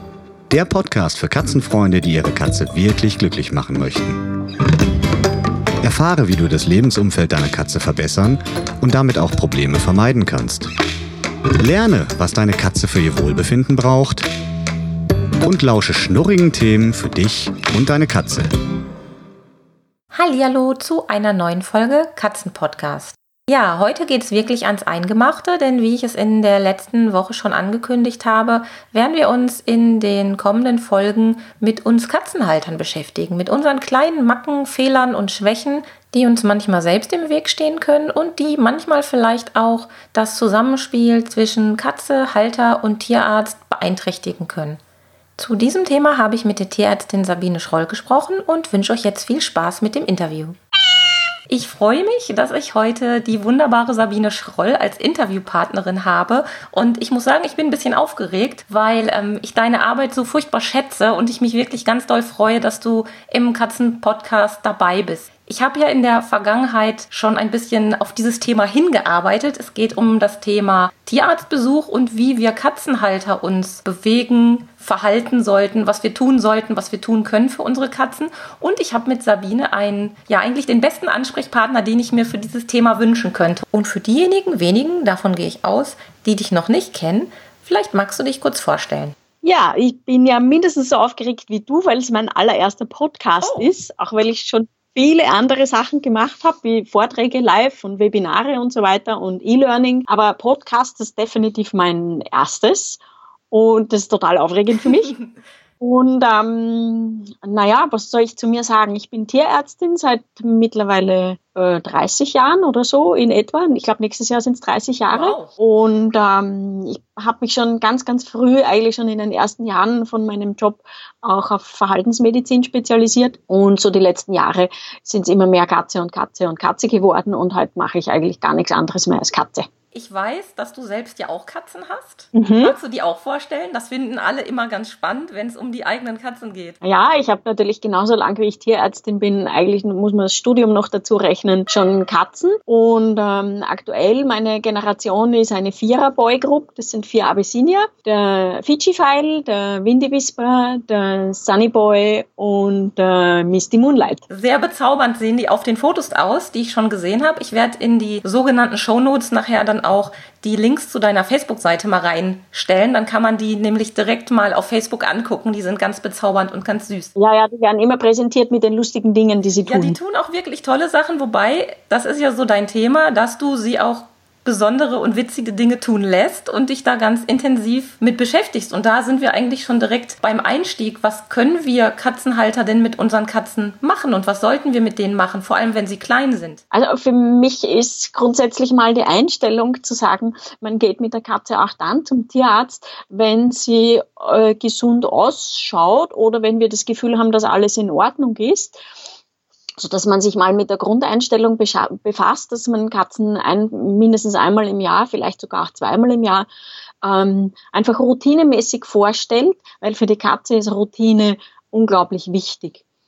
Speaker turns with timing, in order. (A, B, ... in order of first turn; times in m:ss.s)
0:00.5-0:04.2 A
0:05.8-0:10.7 A
0:11.6-0:14.3 A
0:15.4-0:18.5 A
0:20.1-0:44.8 B
0:45.4-0:50.6 B
0:51.5-1:29.2 B
1:29.4-1:43.0 C
1:33.4-1:33.7 B
1:43.5-1:45.2 C
1:45.0-1:45.4 B
1:45.8-2:09.7 C
1:55.1-1:55.5 B
2:09.9-2:16.8 B
2:12.3-2:12.8 C
2:16.8-2:34.2 C
2:34.3-2:47.1 B
2:47.2-2:50.0 C
2:49.6-3:06.6 B
3:06.7-3:18.8 C
3:19.8-3:26.5 C
3:27.0-3:32.8 C